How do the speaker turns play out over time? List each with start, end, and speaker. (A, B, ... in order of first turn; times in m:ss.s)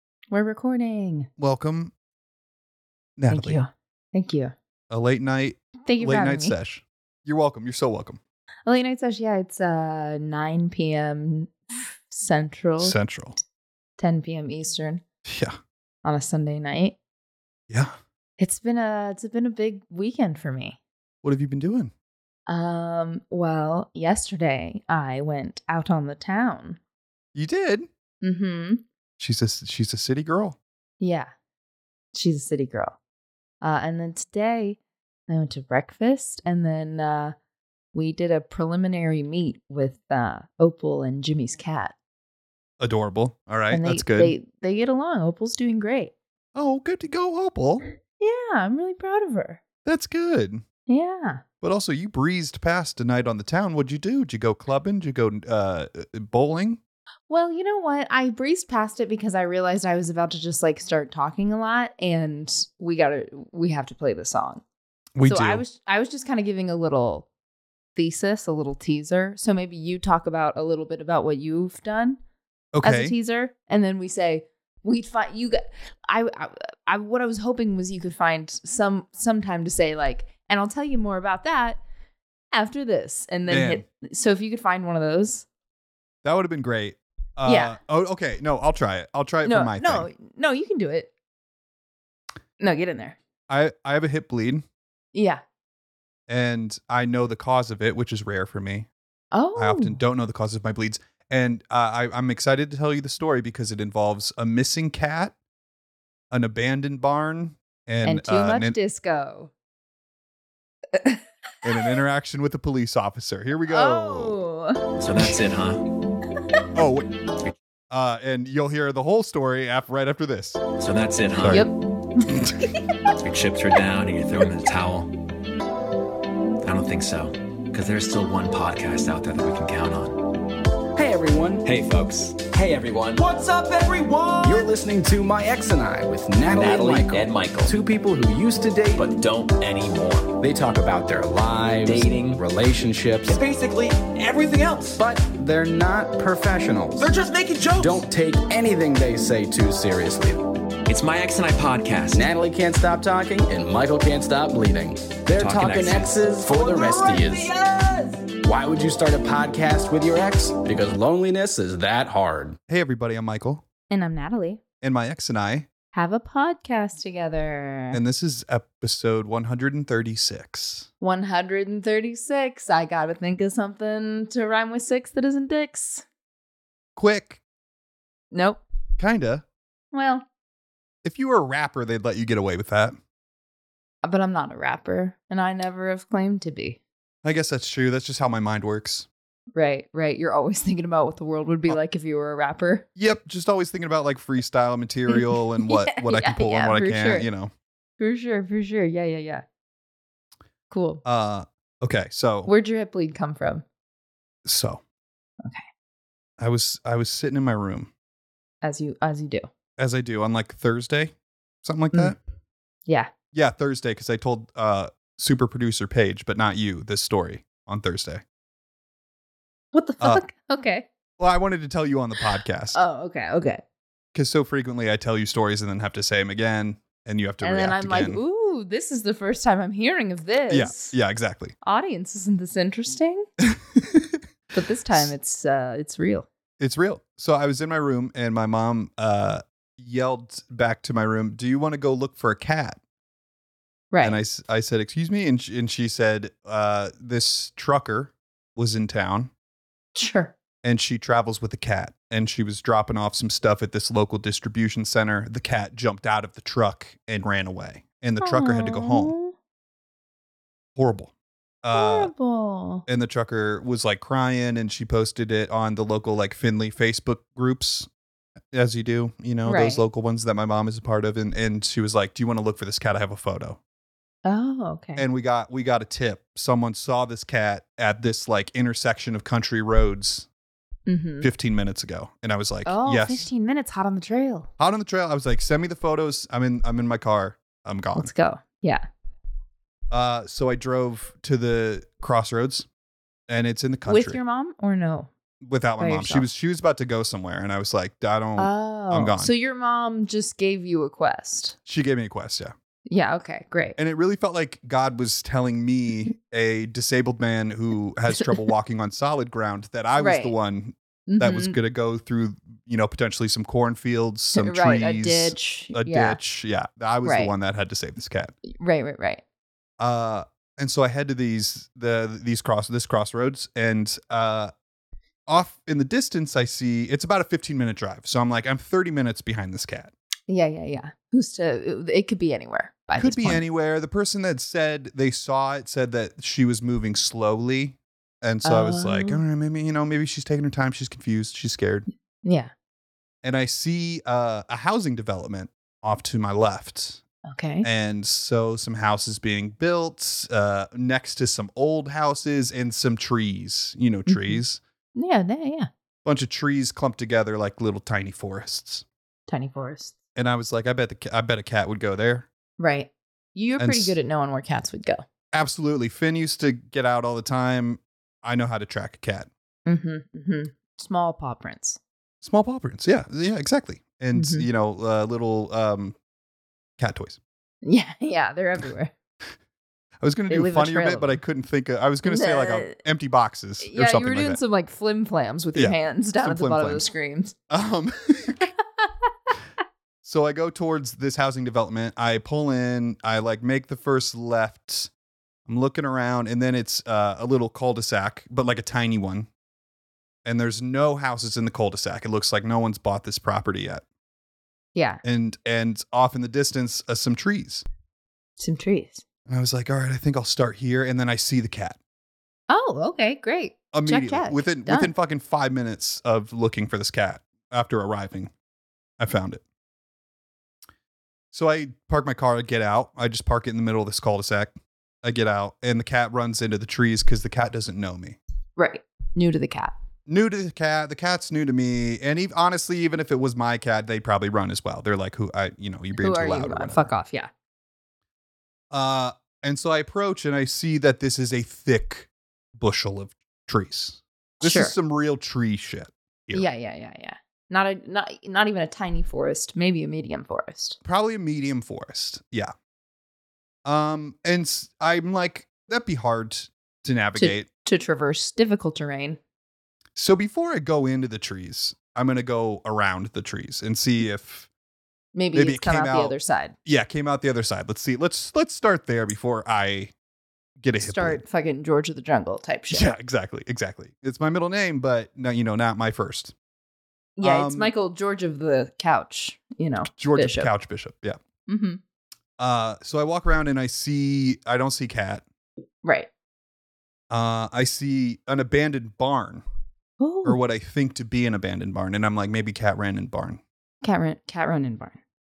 0:00.3-0:01.3 A
0:01.4-0:01.9 B
0:03.2-0:03.6 B
0:03.3-0:04.5 A
0:04.9-0:08.2 B
0:05.8-0:06.6 A
0:08.6-0:13.0 A
0:12.8-0:13.4 B
0:14.0-0:15.0 A
0:15.2-0:15.6 B
0:16.0-0:17.0 A
0:17.7-0:17.9 B
0:18.4-0:20.8 A
0:21.2-0:21.9 B
0:22.5-0:26.8 A
0:27.3-0:27.9 B
0:28.2-0:28.8 A
0:29.2-0:30.6 B
0:31.0-0:31.3 A
0:32.1-0:33.0 A
0:33.6-0:37.3 A
0:37.9-0:41.9 A
0:42.8-0:44.3 B
0:43.7-0:46.1 A
0:46.5-0:47.8 B
0:48.2-0:49.6 A
0:49.8-0:50.6 B
0:50.9-0:51.4 A
0:51.6-0:56.8 B
0:57.3-1:04.6 A
1:05.2-1:05.6 B
1:05.2-1:07.3 A
1:08.0-1:12.2 A
1:12.7-1:13.1 B
1:12.8-1:21.8 A
1:22.5-1:25.4 A
1:23.5-1:23.8 B
1:26.2-1:30.1 B
1:27.4-1:27.8 A
1:29.4-1:31.1 A
1:32.6-1:33.2 A
1:33.5-1:34.6 B
1:35.1-1:35.4 A
1:36.3-1:38.9 B
1:39.3-1:40.0 A
1:39.6-1:45.3 B
1:46.3-1:48.8 B
1:48.0-1:49.5 A
1:51.0-1:51.2 A
1:51.6-1:54.4 B
1:53.7-1:55.0 A
1:55.0-1:55.8 C
1:56.7-1:57.1 B
1:57.9-2:00.6 B
2:00.8-2:01.7 C
2:01.4-2:01.7 B
2:01.5-2:02.5 A
2:03.1-2:05.1 C
2:06.6-2:10.3 C
2:10.9-2:11.6 D
2:11.6-2:13.2 C
2:13.1-2:14.7 E
2:14.4-2:19.1 D
2:16.4-2:17.8 C
2:18.9-2:20.3 C
2:20.4-2:23.4 D
2:21.8-2:22.4 C
2:23.3-2:25.0 E
2:25.0-2:27.1 D
2:27.0-2:28.0 E
2:27.8-2:30.4 D
2:30.8-2:32.3 C
2:32.1-2:37.5 D
2:35.4-2:36.3 C
2:36.4-2:38.3 E
2:38.4-2:42.6 D
2:42.7-2:43.6 B
2:43.9-2:44.6 A
2:44.8-2:45.7 B
2:45.9-2:48.0 A
2:47.9-2:50.9 B
2:51.0-2:56.0 A
2:57.0-2:57.4 B
2:58.3-2:58.6 A
2:59.0-2:59.4 B
2:59.9-3:00.2 A
3:01.0-3:03.0 B
3:04.0-3:06.8 A
3:07.2-3:09.0 B
3:09.5-3:12.8 A
3:13.0-3:17.5 B
3:15.1-3:17.3 A
3:18.0-3:19.4 A
3:20.7-3:21.0 A
3:21.0-3:22.5 B
3:22.4-3:23.6 A
3:24.4-3:24.8 B
3:26.4-3:27.9 B
3:28.6-3:29.5 A
3:29.8-3:32.2 B
3:33.3-3:38.2 B
3:39.7-3:40.8 A
3:41.2-3:42.8 B
3:42.7-3:43.6 A
3:44.1-3:48.2 B
3:47.4-3:50.9 A
3:50.5-3:51.5 B
3:51.6-3:53.2 A
3:53.4-3:54.2 B
3:54.5-3:56.2 A
3:56.6-4:02.8 B
4:03.9-4:04.2 A
4:04.0-4:09.3 B
4:09.9-4:10.3 A
4:10.6-4:19.1 B
4:18.2-4:19.3 A
4:20.8-4:21.1 B
4:21.6-4:22.1 B
4:21.7-4:22.8 A
4:22.8-4:27.9 B
4:28.5-4:33.6 B
4:29.4-4:29.8 A
4:34.2-4:35.0 A
4:35.0-4:40.3 B
4:40.9-4:41.3 A
4:41.2-4:43.3 B
4:42.6-4:44.5 A
4:44.6-4:48.1 B
4:47.9-4:48.8 A
4:49.9-4:52.7 B
4:53.3-4:54.2 B
4:53.8-4:55.1 A
4:55.4-4:59.3 B
4:55.8-4:56.3 A
4:58.4-5:01.6 A
5:01.6-5:02.5 B
5:02.9-5:03.8 A
5:03.8-5:18.3 B
5:10.0-5:10.3 A
5:11.1-5:11.6 A
5:14.3-5:16.2 A
5:17.0-5:17.3 A
5:18.5-5:19.2 A
5:19.8-5:24.5 B
5:25.3-5:29.9 B
5:30.3-5:33.4 A
5:33.0-5:41.9 B
5:38.4-5:39.2 A
5:42.2-5:42.5 A
5:43.2-5:47.0 B
5:47.2-5:47.7 A
5:47.6-5:54.6 B
5:54.1-5:54.4 A
5:54.9-5:55.7 A
5:56.0-5:58.8 B
5:59.3-5:59.9 A
6:00.2-6:02.2 B
6:02.6-6:05.0 A
6:03.6-6:04.0 B
6:05.3-6:09.3 B
6:09.6-6:11.8 A
6:12.2-6:16.0 B
6:14.1-6:14.4 A
6:16.8-6:17.2 B
6:17.6-6:18.9 A
6:20.0-6:24.4 B
6:20.3-6:21.2 A
6:22.0-6:22.8 A
6:23.6-6:27.3 A
6:25.5-6:26.8 B
6:27.5-6:28.5 B
6:30.0-6:34.9 B
6:35.5-6:39.3 B
6:40.2-6:43.8 B
6:44.7-6:45.0 A
6:45.0-6:47.6 B
6:48.4-6:49.0 A
6:49.3-6:51.8 B
6:52.5-6:54.9 A
6:53.7-6:58.3 B
6:59.0-6:59.4 B
7:01.3-7:08.2 B
7:08.6-7:09.7 A
7:10.1-7:16.9 B
7:16.0-7:17.3 A
7:18.7-7:26.4 B
7:24.4-7:24.7 A
7:26.3-7:30.8 A
7:30.8-7:32.5 B
7:33.6-7:37.5 B
7:37.2-7:39.2 A
7:40.0-7:44.5 B
7:45.1-7:46.5 A
7:45.3-7:49.9 B
7:50.6-7:51.2 B
7:50.8-7:52.9 A
7:52.7-7:56.3 B
7:57.2-8:00.5 A
7:57.2-7:57.7 B
7:59.9-8:01.2 B
8:01.5-8:01.8 A
8:02.4-8:05.2 B
8:05.8-8:06.1 A
8:07.1-8:09.4 B
8:10.0-8:10.4 A
8:10.2-8:13.4 B
8:13.8-8:15.0 A